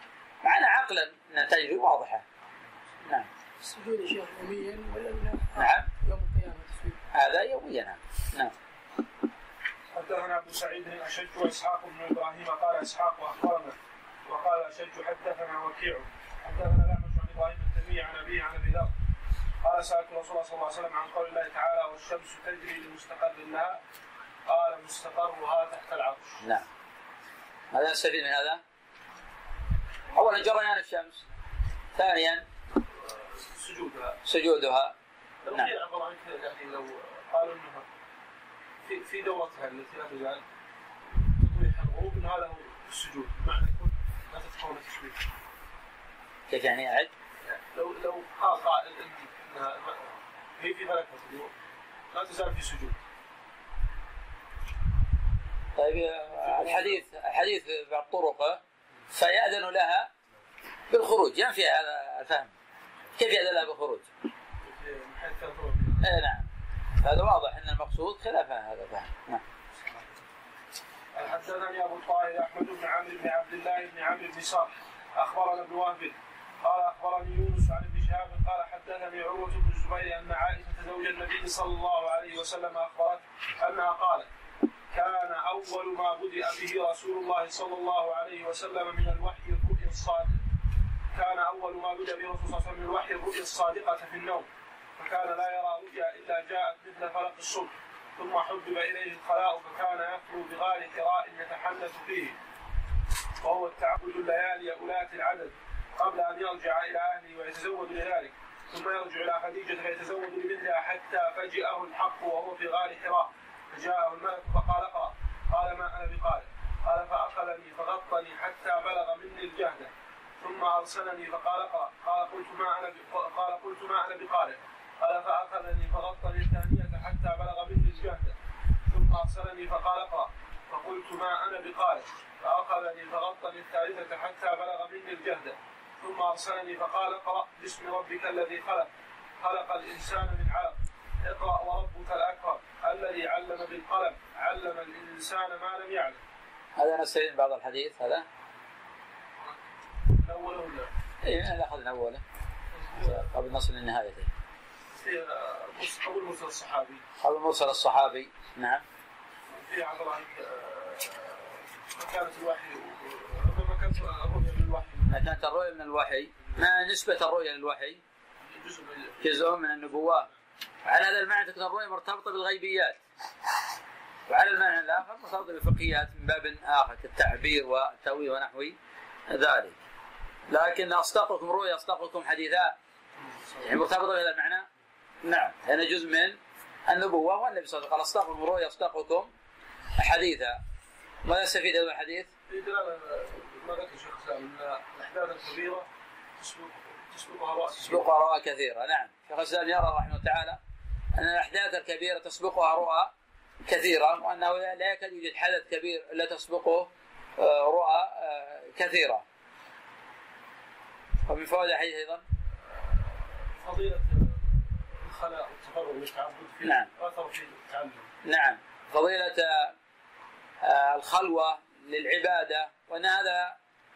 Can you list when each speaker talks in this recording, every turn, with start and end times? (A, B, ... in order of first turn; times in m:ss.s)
0:00.4-0:02.2 A
0:03.7-0:05.5 B
0:05.6-0:05.9 A
0:06.1-0:06.9 B
0:07.1-0:08.5 A
0:09.9-0:13.8 C
0:14.3-0:18.9 C
0:19.6-0:23.8 C
0:24.5-0:26.4 C
0:26.4-0:26.7 A
0:27.7-0:28.6 A
0:30.1-0:31.2 A
0:32.0-0:32.4 A
0:33.1-0:34.2 C
0:34.2-0:35.0 A
0:35.4-0:37.9 C
0:38.8-0:40.4 C
0:41.3-0:45.2 C
0:46.5-0:47.1 A
0:47.4-0:51.5 C
0:52.1-0:53.0 C
0:55.8-1:00.1 A
0:56.4-0:57.0 C
1:00.9-1:02.5 A
1:03.2-1:04.1 A
1:04.6-1:06.1 C
1:06.0-1:06.5 A
1:07.0-1:09.4 A
1:09.8-1:10.1 C
1:11.1-1:24.3 C
1:24.9-1:30.4 C
1:31.1-1:42.4 C
1:43.4-2:08.4 C
2:08.9-2:18.9 C
2:19.4-2:26.2 C
2:26.8-2:28.3 A
2:30.1-2:30.9 C
2:31.2-2:32.2 A
2:32.7-2:33.3 C
2:33.0-2:34.3 A
2:35.0-2:37.0 C
2:37.2-2:38.8 A
2:39.5-2:45.3 C
2:45.1-2:48.0 A
2:48.5-2:49.3 C
2:49.2-2:50.3 A
2:50.8-2:53.0 A
2:54.3-2:58.8 A
2:59.3-2:59.8 A
3:00.5-3:02.8 A
3:03.6-3:04.7 A
3:05.2-3:09.3 A
3:10.0-3:10.6 A
3:11.2-3:12.3 A
3:12.5-3:15.9 C
3:16.4-3:18.1 C
3:17.8-3:20.6 A
3:21.2-3:23.1 A
3:23.6-3:29.2 A
3:31.3-3:32.2 A
3:32.7-3:38.1 C
3:36.6-3:36.9 A
3:38.2-3:39.7 A
3:40.6-3:43.6 A